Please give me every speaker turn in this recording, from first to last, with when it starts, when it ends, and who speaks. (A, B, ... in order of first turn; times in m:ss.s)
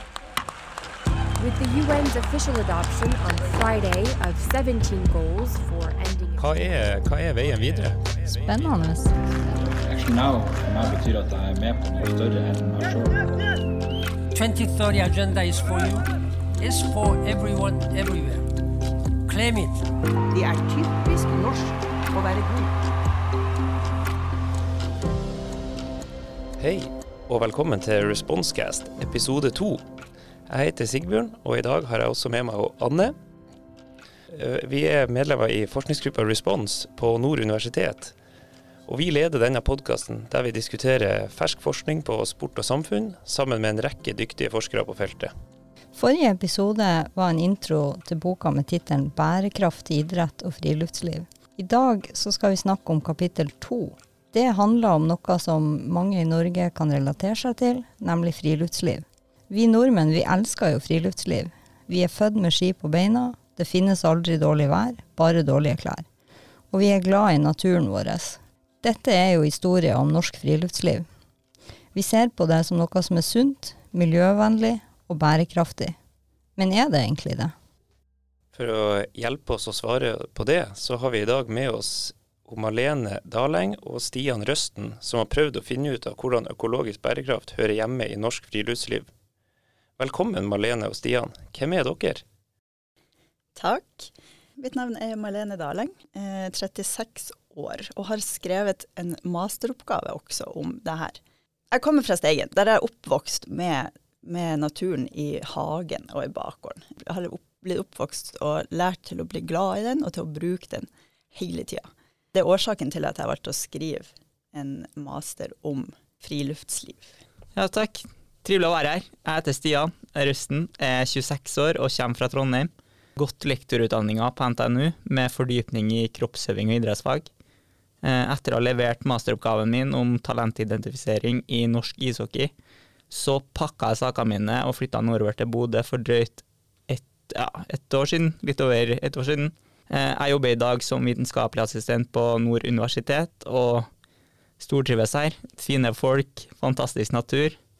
0:01.4-0:06.7 A
0:06.4-0:08.4 B
0:08.4-0:09.5 C
0:09.6-0:13.3 D
0:14.3-0:18.5 E
0:19.3-0:19.9 E
0:20.3-0:22.8 F
0:26.6-0:29.8 B
0:30.5-0:33.2 B
0:34.3-0:38.1 B
0:38.9-0:45.3 B
0:46.0-1:06.1 C
1:06.7-1:11.1 C
1:11.9-1:16.0 C
1:16.6-1:17.5 C
1:18.5-1:29.1 B
1:30.0-1:32.2 B
1:33.6-1:41.2 G
1:41.7-1:57.2 G
1:57.6-2:07.3 H
2:08.0-2:12.5 H
2:13.1-2:23.9 H
2:24.6-2:27.6 H